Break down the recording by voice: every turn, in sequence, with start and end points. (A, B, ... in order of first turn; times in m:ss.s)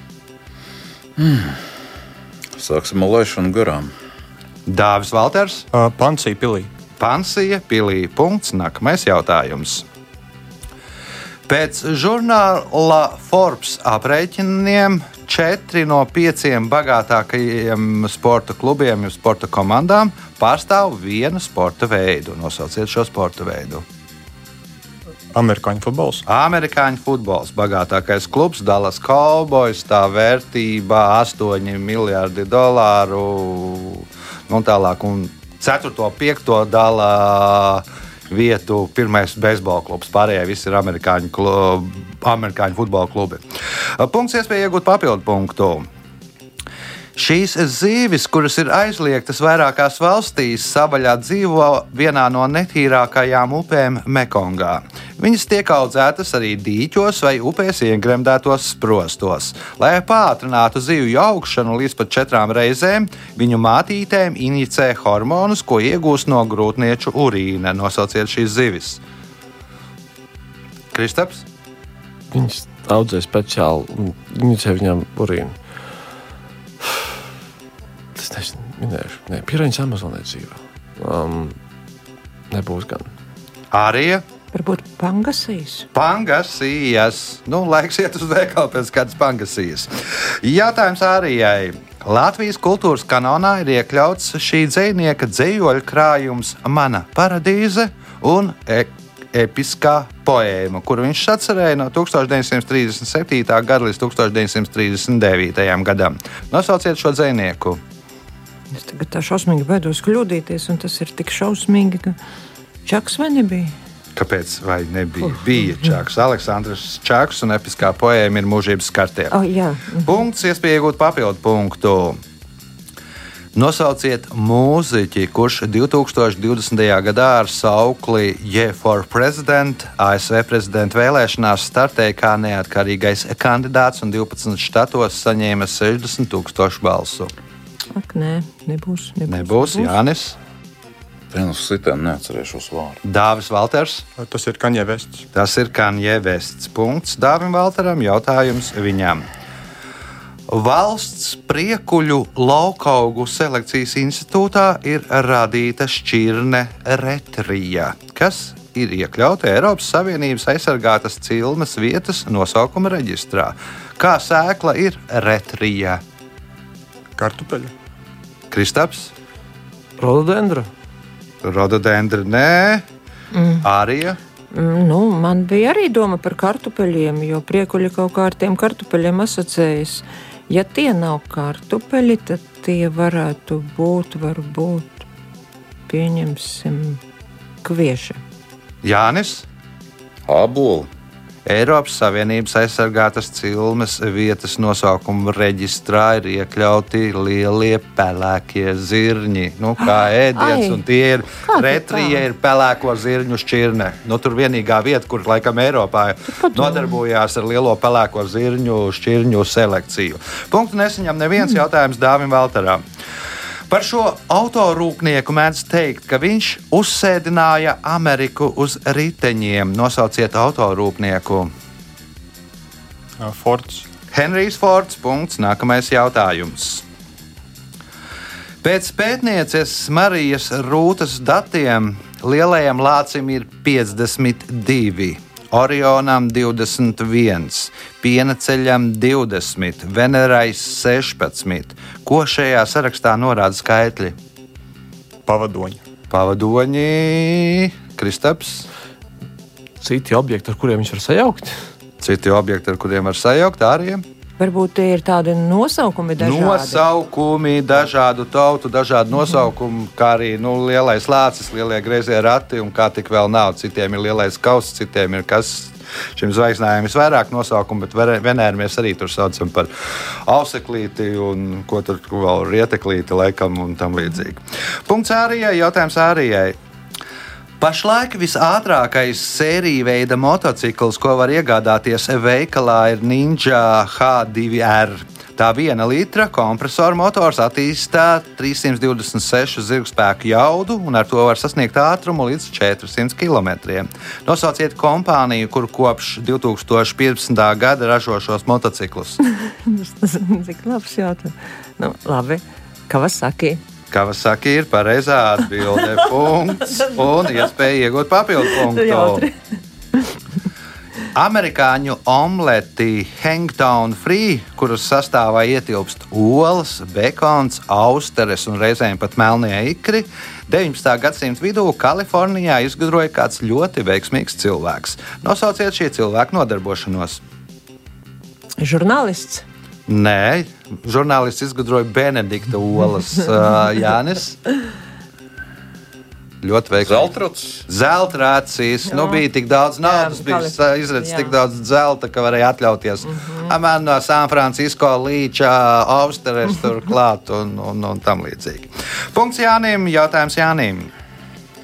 0:01.2-0:01.6 A
0:02.6-0:03.9 A
0:04.7-0:05.7 B
0:05.7-0:06.7 C
0:07.0-0:09.8 B
0:11.5-0:23.8 B
0:25.3-0:26.2 C
0:26.3-0:43.4 B
0:44.0-0:45.9 B
0:47.2-1:09.0 B
1:10.9-1:11.4 B
1:12.3-1:15.6 D
1:16.8-1:17.1 D
1:18.2-1:21.6 D
1:22.5-1:23.1 D
1:23.7-1:24.2 B
1:24.5-1:25.9 E
1:25.9-1:47.8 B
1:48.7-1:52.2 E
1:52.9-1:53.8 E
1:54.2-1:59.3 B
1:59.3-2:00.2 E
2:00.1-2:02.2 B
2:03.5-2:17.3 B
2:17.9-2:20.0 E
2:19.3-2:20.4 B
2:21.3-2:23.0 A
2:23.0-2:24.0 B
2:24.2-2:25.3 C
2:25.3-2:29.3 B
2:30.5-2:46.0 B
2:47.2-2:47.7 C
2:48.5-2:49.1 B
2:50.0-2:50.7 D
2:51.4-2:52.8 B
2:53.3-2:53.7 E
2:53.6-2:54.2 B
2:54.5-3:05.1 E
3:05.9-3:07.0 E
3:07.6-3:08.2 E
3:08.8-3:09.5 B
3:10.3-3:10.9 A
3:11.4-3:32.8 B
3:19.8-3:20.8 E
3:21.4-3:22.2 E
3:26.4-3:27.0 E
3:33.7-3:41.5 B
3:43.2-3:43.9 C
3:44.1-3:46.8 B
3:48.6-4:04.2 B
4:05.3-4:05.8 C
4:06.1-4:08.7 B
4:09.8-4:11.7 D
4:12.0-4:14.0 B
4:14.4-4:16.8 E
4:16.2-4:29.7 B
4:30.3-4:36.6 B
4:37.6-4:59.2 B
4:59.4-5:03.6 E
5:03.9-5:09.3 B
5:06.7-5:07.3 E
5:08.4-5:09.4 E
5:11.2-5:27.2 B
5:28.6-5:29.4 E
5:29.9-5:34.4 B
5:36.4-5:37.1 B
5:36.8-5:37.7 A
5:37.7-5:50.9 B
5:38.9-5:39.2 E
5:39.8-5:41.4 E
5:43.1-5:43.5 E